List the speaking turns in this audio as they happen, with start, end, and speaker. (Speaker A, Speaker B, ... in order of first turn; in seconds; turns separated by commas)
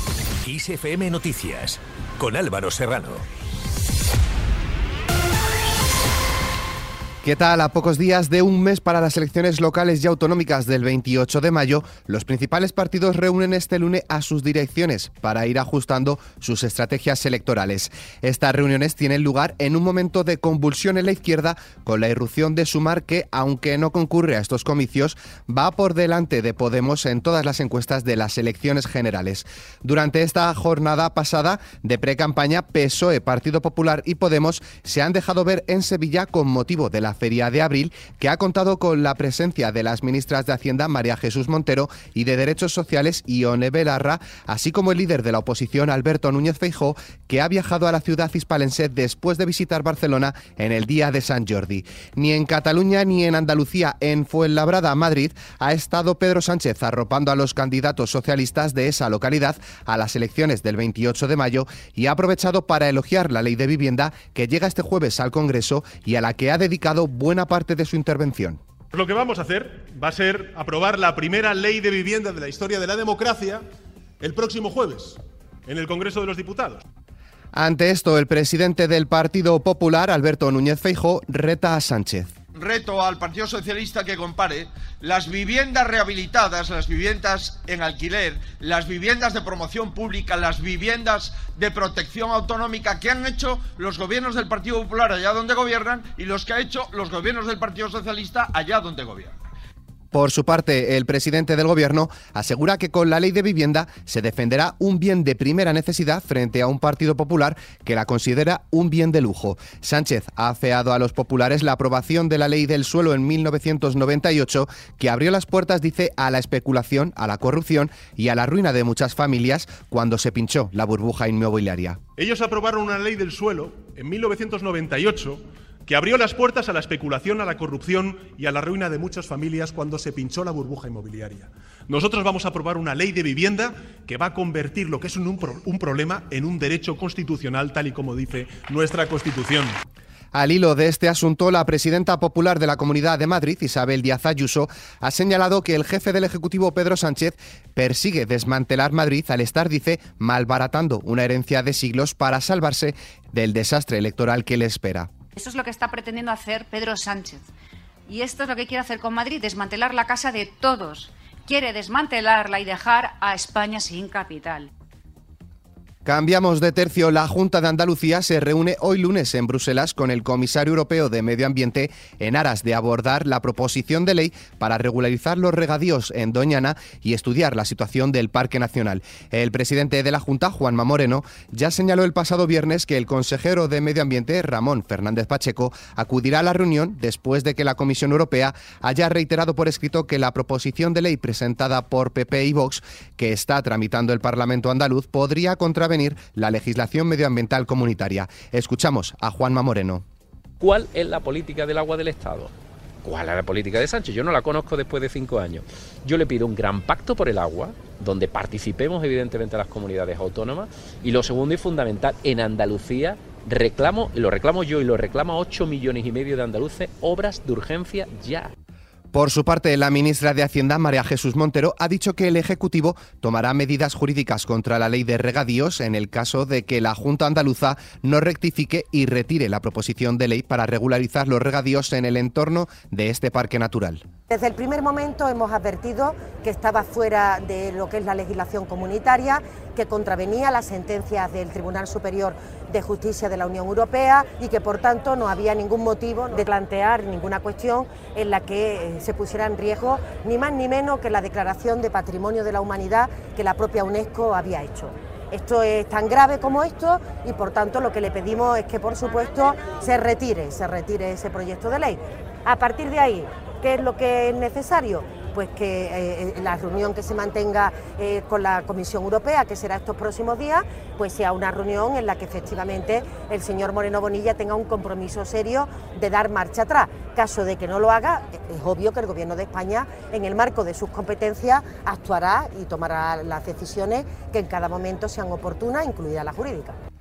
Speaker A: 0.4-3.2, Speaker B: 7.2-68.6, Speaker C: 68.9-73.6, Speaker C: 74.2-76.8, Speaker B: 77.5-82.3, Speaker D: 82.5-99.3, Speaker B: 100.1-122.0, Speaker C: 122.2-139.7, Speaker B: 140.3-155.1, Speaker E: 155.3-157.4, Speaker E: 158.1-164.7, Speaker B: 166.0-200.0, Speaker F: 200.6-202.5, Speaker F: 203.0-218.5, Speaker B: 219.1-234.0, Speaker G: 234.3-286.8